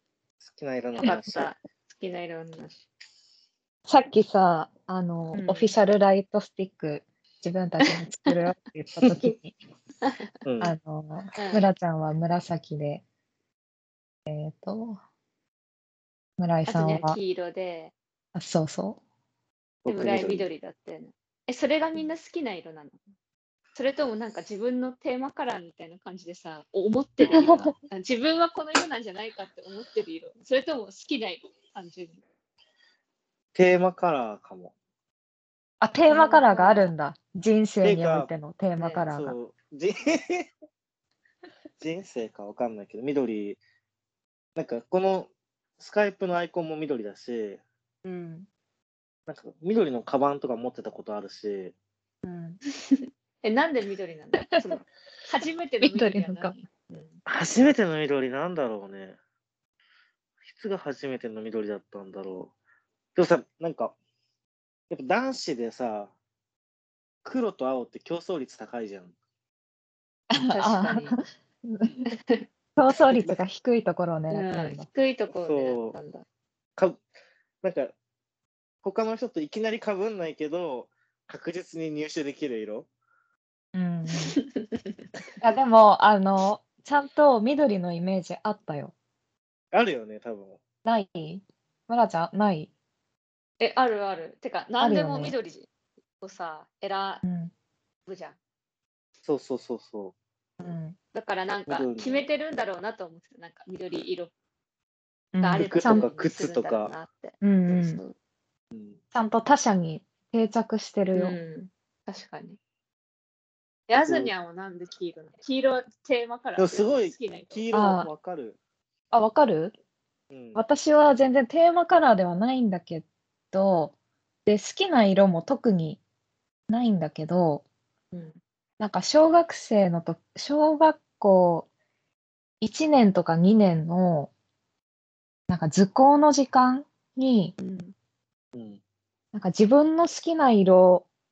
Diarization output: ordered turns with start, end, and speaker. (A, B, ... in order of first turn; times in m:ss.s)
0:00.4-0:01.5 A
0:01.0-0:02.8 B
0:03.9-0:09.6 C
0:05.3-0:05.8 B
0:07.9-0:08.3 B
0:10.4-0:10.8 A
0:10.6-0:13.0 C
0:11.4-0:11.7 B
0:14.3-0:15.0 C
0:16.4-0:17.2 C
0:16.7-0:17.9 B
0:18.4-0:19.0 C
0:19.8-0:20.5 A
0:19.9-0:23.0 B
0:23.8-0:32.2 B
0:27.3-0:27.7 C
0:33.6-0:34.7 A
0:35.8-0:39.4 C
0:36.1-0:36.9 B
0:37.8-0:38.3 A
0:38.8-0:39.1 B
0:39.1-0:40.5 A
0:41.8-0:43.6 A
0:44.6-0:47.6 A
0:48.0-0:48.5 C
0:49.3-0:51.7 A
0:52.2-0:52.6 C
0:52.9-0:57.2 B
0:55.8-0:56.6 C
0:57.3-0:59.2 A
1:00.5-1:02.5 A
1:03.2-1:04.0 A
1:04.9-1:06.1 A
1:07.2-1:09.1 A
1:10.3-1:12.0 C
1:10.4-1:11.2 B
1:12.1-1:12.4 B
1:12.8-1:14.9 C
1:13.1-1:13.4 A
1:14.3-1:16.2 B
1:15.3-1:16.0 A
1:17.6-1:17.9 A
1:18.8-1:22.9 A
1:23.7-1:24.4 C
1:24.2-1:24.6 B
1:25.4-1:28.9 C
1:29.7-1:30.6 A
1:30.8-1:32.7 C
1:33.6-1:35.7 B
1:34.8-1:35.4 C
1:36.2-1:37.2 B
1:37.2-1:37.5 C
1:38.1-1:38.4 B
1:39.2-1:40.2 A
1:40.6-1:41.0 C
1:41.2-1:44.3 B
1:41.7-1:42.3 A
1:45.3-1:46.1 C
1:45.4-1:48.2 B
1:45.6-1:46.9 A
1:47.4-1:48.0 C
1:48.7-1:49.0 A
1:49.1-1:51.4 C
1:51.2-1:52.6 B
1:53.9-1:58.0 B
1:54.0-1:54.3 A
1:56.6-1:58.6 A
1:57.7-1:58.1 C
1:59.1-1:59.8 C
2:00.3-2:00.6 A
2:00.6-2:03.9 C
2:04.5-2:06.0 C
2:06.7-2:07.6 C
2:08.1-2:08.4 B
2:08.8-2:11.7 C
2:12.6-2:14.3 C
2:15.5-2:17.6 C
2:17.6-2:17.9 B
2:18.5-2:18.8 A
2:19.3-2:21.1 C